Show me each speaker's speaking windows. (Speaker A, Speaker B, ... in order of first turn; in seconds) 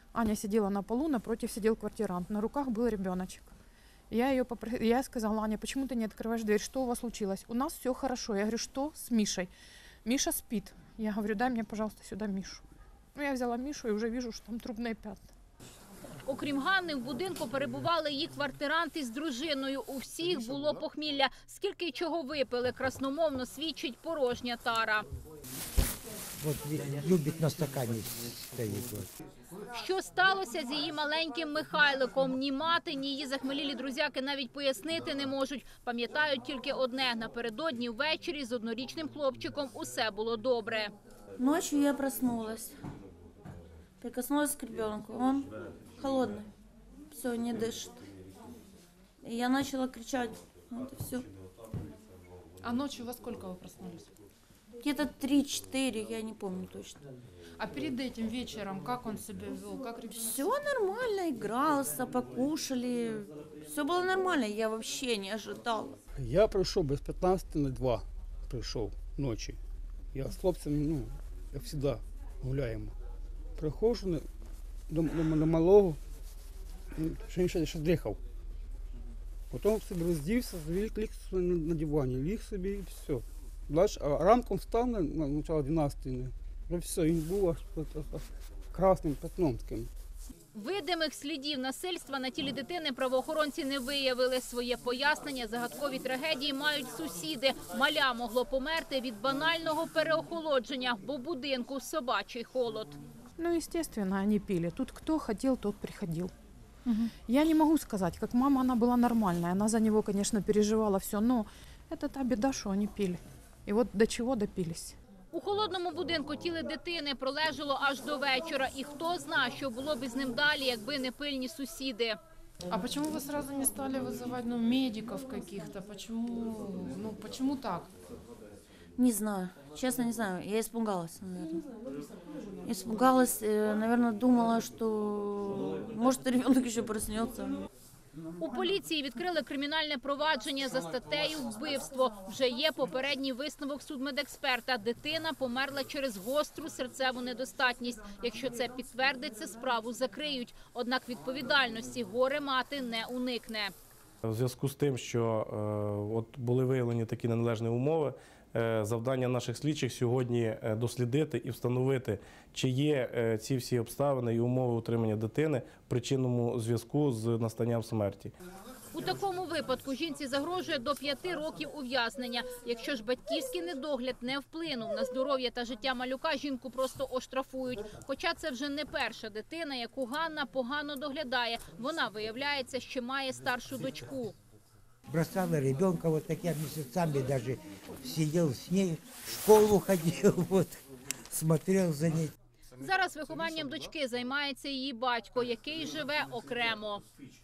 Speaker A: 0.3-3.5, 4.1-9.5, 10.1-12.6, 13.2-15.2, 103.6-106.2, 107.3-111.4, 112.0-113.2, 113.7-114.9
Speaker B: 16.2-25.1, 29.7-40.9, 90.5-103.0, 115.3-122.2, 138.4-153.7, 168.9-184.4, 192.8-197.0
Speaker C: 26.4-29.1, 185.1-192.3
Speaker D: 41.4-42.7, 44.0-46.5, 47.1-48.0, 49.2-51.3, 54.8-57.0, 60.3-66.0, 129.0-131.6, 132.6-137.6
Speaker E: 52.6-54.1, 57.6-60.5, 122.7-127.9
Speaker F: 66.2-69.6, 70.1-72.9, 73.6-74.2, 74.9-76.0, 76.9-78.2, 79.5-89.9
Speaker G: 154.3-168.3